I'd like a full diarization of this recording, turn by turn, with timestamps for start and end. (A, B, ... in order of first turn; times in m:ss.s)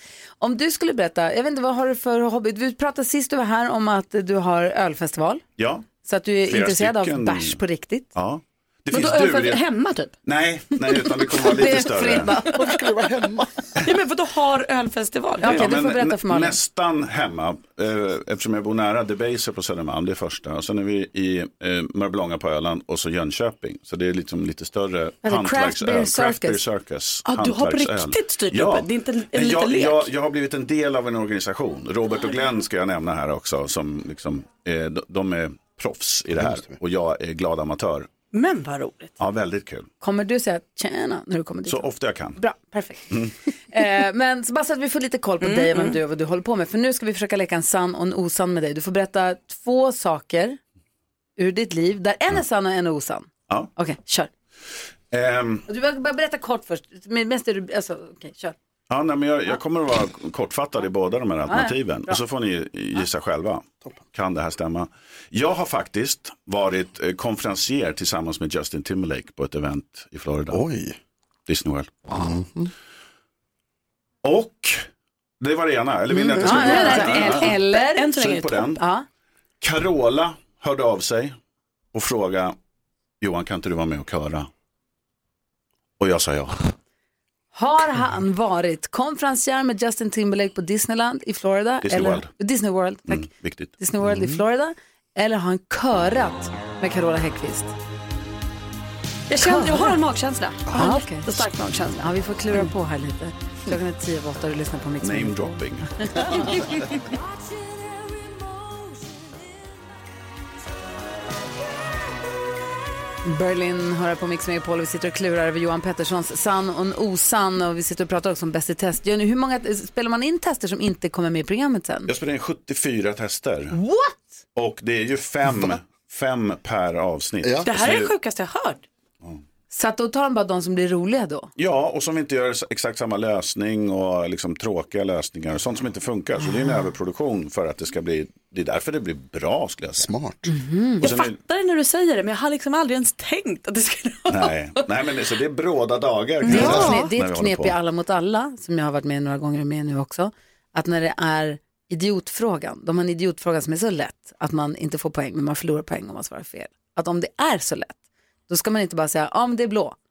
0:00.4-0:05.4 A
0:05.6-0:05.9 B
0:06.0-0:08.1 A
0:06.5-0:07.6 B
0:08.2-0:09.6 B
0:08.9-0:10.1 C
0:10.2-0:12.4 B
0:11.3-0:12.8 A
0:12.4-0:13.7 D
0:13.8-0:15.7 C
0:15.4-0:16.6 A
0:15.4-0:38.1 B
0:25.2-0:26.6 A
0:27.2-0:30.1 C
0:36.4-0:36.8 D
0:38.3-0:39.2 C
0:39.2-0:39.9 B
0:40.0-0:43.2 A
0:41.7-0:42.4 B
0:43.7-0:50.6 A
0:45.4-0:46.0 C
0:51.4-0:54.3 A
0:55.1-0:55.7 B
0:55.7-0:58.6 A
0:58.9-1:10.6 B
1:01.5-1:02.2 A
1:10.5-1:11.0 D
1:11.5-1:12.3 B
1:12.1-1:12.7 D
1:14.2-1:14.8 B
1:15.4-1:17.6 B
1:16.1-1:18.1 A
1:16.4-1:18.8 C
1:18.1-1:18.8 B
1:18.8-1:19.0 A
1:19.6-1:21.4 B
1:21.9-1:22.6 B
1:23.2-1:24.5 B
1:26.0-1:26.7 B
1:27.5-1:37.7 A
1:31.8-1:32.3 B
1:33.1-1:33.7 B
1:34.0-1:34.4 D
1:39.3-1:42.0 C
1:39.4-1:40.0 A
1:40.7-1:41.4 A
1:42.0-1:47.0 A
1:45.0-1:46.7 B
1:53.2-2:02.1 A
2:02.1-2:03.8 B
2:03.7-2:04.2 A
2:04.6-2:08.1 B
2:07.4-2:07.7 D
2:07.6-2:08.8 C
2:09.7-2:11.5 A
2:11.6-2:20.1 B
2:20.0-2:20.5 D
2:20.5-2:21.1 A
2:21.0-2:24.8 C
2:21.0-2:21.4 B
2:24.3-2:27.8 B
2:26.4-2:27.1 C
2:26.5-2:38.0 A
2:26.5-2:27.0 D
2:38.5-2:40.0 A